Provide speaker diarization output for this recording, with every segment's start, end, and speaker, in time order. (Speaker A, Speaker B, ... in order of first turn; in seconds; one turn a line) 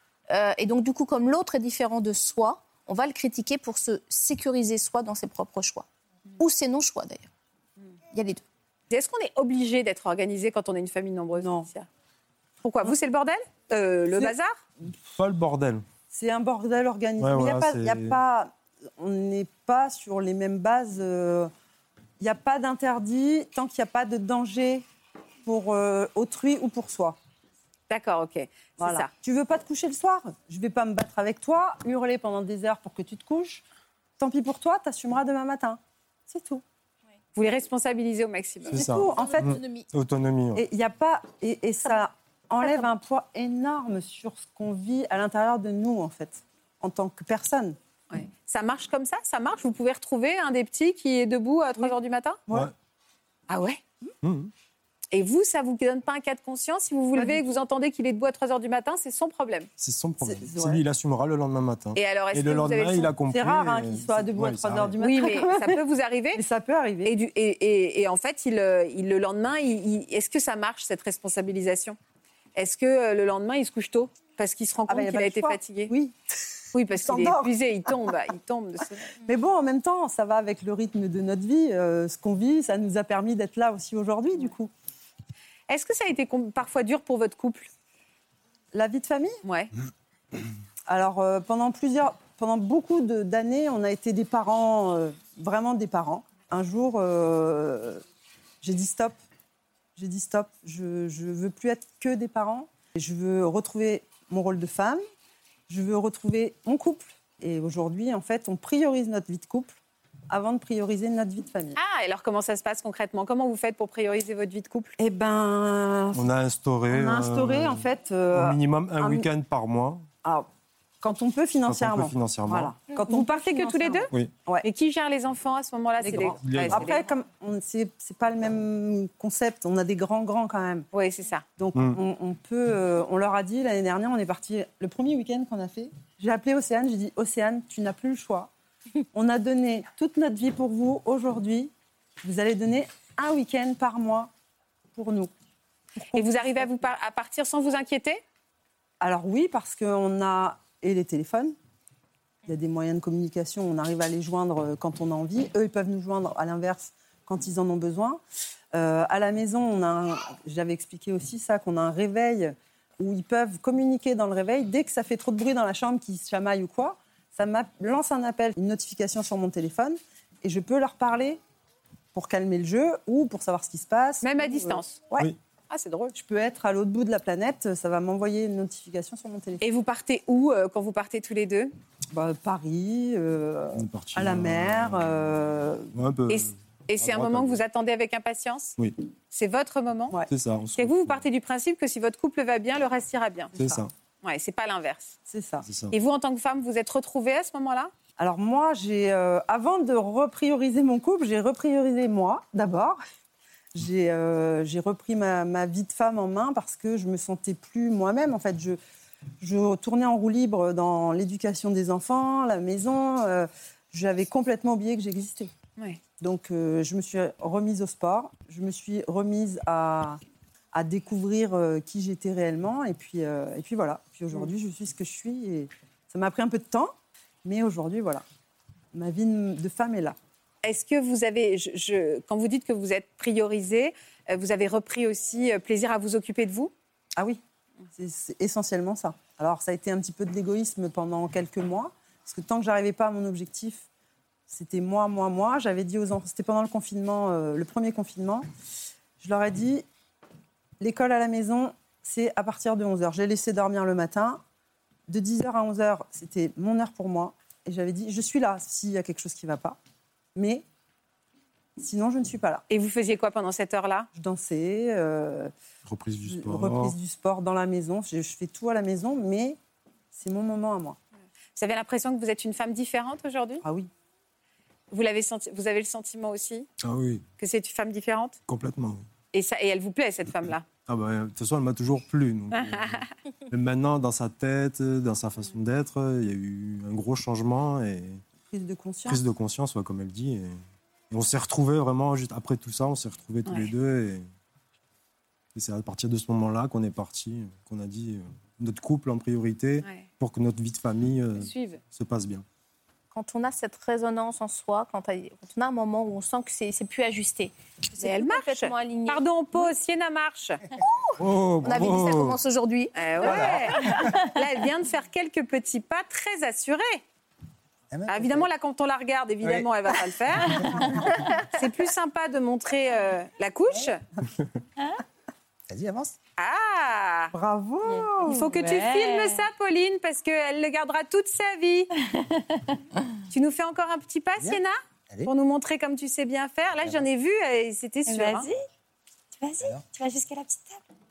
Speaker A: 0.3-5.9
Speaker A: 6.4-7.3
Speaker A: 8.1-8.4
Speaker B: 8.9-11.9
Speaker C: 11.3-11.7
Speaker B: 12.6-14.6
Speaker D: 15.2-15.8
Speaker C: 16.1-21.5
Speaker D: 17.2-18.2
Speaker C: 22.2-24.8
Speaker C: 25.4-27.2
Speaker B: 27.9-29.1
Speaker C: 28.8-33.6
Speaker C: 34.2-36.6
Speaker B: 37.4-38.8
Speaker C: 38.7-39.6
Speaker D: 38.7-40.6
Speaker A: 39.1-39.9
Speaker C: 40.5-47.8
Speaker B: 48.1-52.4
Speaker B: 53.5-53.8
Speaker D: 54.2-54.5
Speaker B: 55.1-59.7
Speaker C: 57.1-57.5
Speaker D: 59.8-64.9
Speaker C: 60.2-60.8
Speaker B: 62.0-63.1
Speaker C: 63.3-65.8
Speaker B: 65.0-66.4
Speaker C: 66.3-67.2
Speaker B: 67.0-72.0
Speaker B: 72.6-75.9
Speaker C: 74.9-77.5
Speaker B: 76.7-79.1
Speaker C: 79.2-84.7
Speaker B: 85.7-87.7
Speaker C: 88.7-89.4
Speaker B: 89.5-89.7
Speaker C: 90.9-98.0
Speaker C: 98.6-99.2
Speaker C: 100.0-105.0
Speaker C: 105.7-109.8
Speaker C: 110.3-111.8
Speaker B: 111.8-115.0
Speaker C: 115.0-116.3
Speaker D: 116.1-117.8
Speaker C: 116.9-119.3
Speaker D: 118.3-120.0
Speaker C: 121.0-124.7
Speaker D: 121.7-122.7
Speaker B: 122.9-124.1
Speaker B: 124.6-127.1
Speaker C: 126.0-130.9
Speaker D: 126.4-126.8
Speaker B: 130.9-131.4
Speaker C: 131.6-138.5
Speaker C: 139.1-144.3
Speaker C: 144.9-145.3
Speaker C: 146.0-146.7
Speaker B: 146.1-148.2
Speaker C: 149.0-151.6
Speaker C: 152.5-158.2
Speaker C: 158.7-171.4
Speaker C: 172.1-175.3
Speaker B: 174.2-175.0
Speaker B: 175.7-176.1
Speaker C: 176.1-179.7
Speaker B: 179.6-181.7
Speaker C: 182.1-185.9
Speaker D: 183.8-187.6
Speaker B: 186.3-188.8
Speaker B: 189.3-190.2
Speaker D: 190.3-191.2
Speaker B: 190.8-193.5
Speaker D: 193.6-193.9
Speaker B: 194.2-195.1
Speaker C: 195.3-195.7
Speaker D: 195.6-195.9
Speaker B: 195.9-197.9
Speaker C: 198.2-203.0
Speaker C: 203.8-208.8
Speaker C: 209.4-215.5
Speaker C: 216.2-220.2
Speaker C: 220.7-226.9
Speaker C: 227.4-228.2
Speaker C: 228.9-230.2
Speaker B: 230.6-236.7
Speaker C: 237.9-243.9
Speaker C: 244.5-248.4
Speaker C: 249.2-249.8
Speaker C: 250.8-254.4
Speaker C: 255.1-259.8
Speaker C: 260.4-260.6
Speaker C: 261.8-262.6
Speaker B: 262.7-264.1
Speaker C: 264.1-265.5
Speaker D: 265.9-267.0
Speaker C: 266.2-269.6
Speaker C: 270.1-271.0
Speaker B: 271.6-273.6
Speaker C: 273.6-273.9
Speaker B: 274.9-276.7
Speaker D: 276.8-277.2
Speaker B: 277.4-278.4
Speaker D: 278.5-279.0
Speaker B: 279.3-280.7
Speaker D: 280.9-288.2
Speaker B: 282.5-282.9
Speaker C: 288.5-289.2
Speaker D: 289.1-290.5
Speaker D: 291.1-294.2
Speaker B: 293.5-293.7
Speaker D: 295.6-302.4
Speaker B: 301.4-301.8
Speaker A: 303.1-309.7
Speaker B: 308.0-310.6
Speaker D: 311.2-312.4
Speaker A: 311.6-314.1
Speaker B: 312.9-317.0
Speaker E: 313.2-314.1
Speaker E: 317.9-318.5
Speaker B: 318.1-324.0
Speaker E: 319.4-319.7
Speaker E: 320.4-320.9
Speaker E: 325.7-326.1
Speaker B: 326.4-327.3
Speaker C: 327.3-328.4
Speaker B: 328.3-331.9
Speaker F: 328.3-329.4
Speaker B: 333.3-338.5
Speaker E: 336.8-337.1
Speaker F: 338.1-338.6
Speaker F: 339.4-340.8